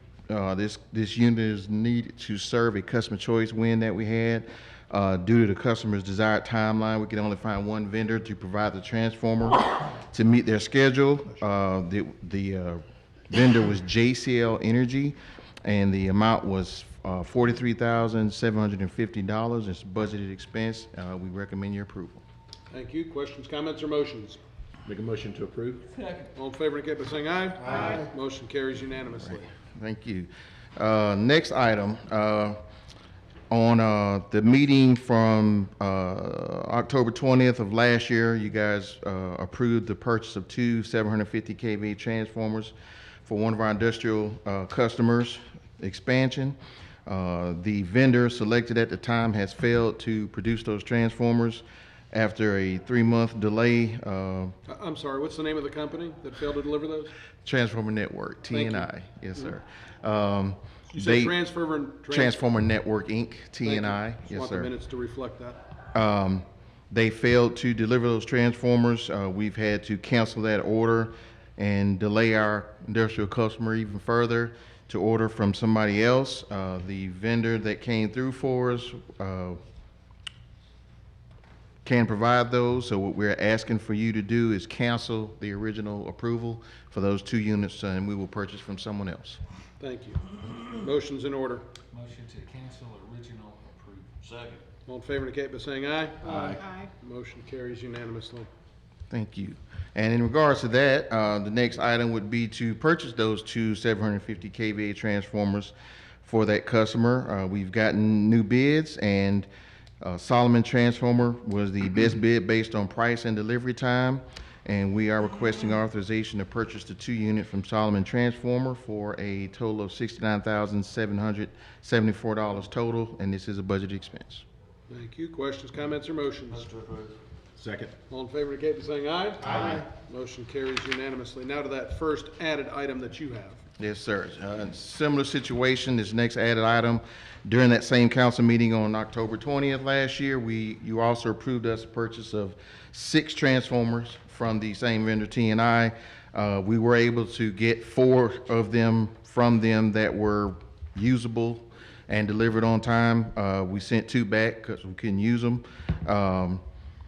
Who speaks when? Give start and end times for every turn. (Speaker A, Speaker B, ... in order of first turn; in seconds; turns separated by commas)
Speaker A: 0.3-22.2, Speaker B: 22.7-24.4, Speaker C: 24.9-25.9, Speaker D: 25.9-26.2, Speaker B: 26.3-29.5, Speaker A: 29.6-32.6, Speaker A: 33.5-54.5, Speaker B: 54.7-57.1, Speaker A: 57.4-61.3, Speaker B: 58.5-58.9, Speaker B: 60.9-62.3, Speaker A: 62.1-64.7, Speaker B: 63.6-65.6, Speaker A: 65.9-79.6, Speaker A: 81.8-89.4, Speaker B: 89.8-91.6, Speaker D: 91.9-94.2, Speaker C: 94.2-94.6, Speaker B: 94.8-98.5, Speaker C: 96.2-96.6, Speaker A: 99.1-109.5, Speaker A: 110.0-124.4, Speaker B: 124.9-126.8, Speaker C: 127.6-127.9, Speaker B: 128.1-133.6, Speaker A: 133.8-156.6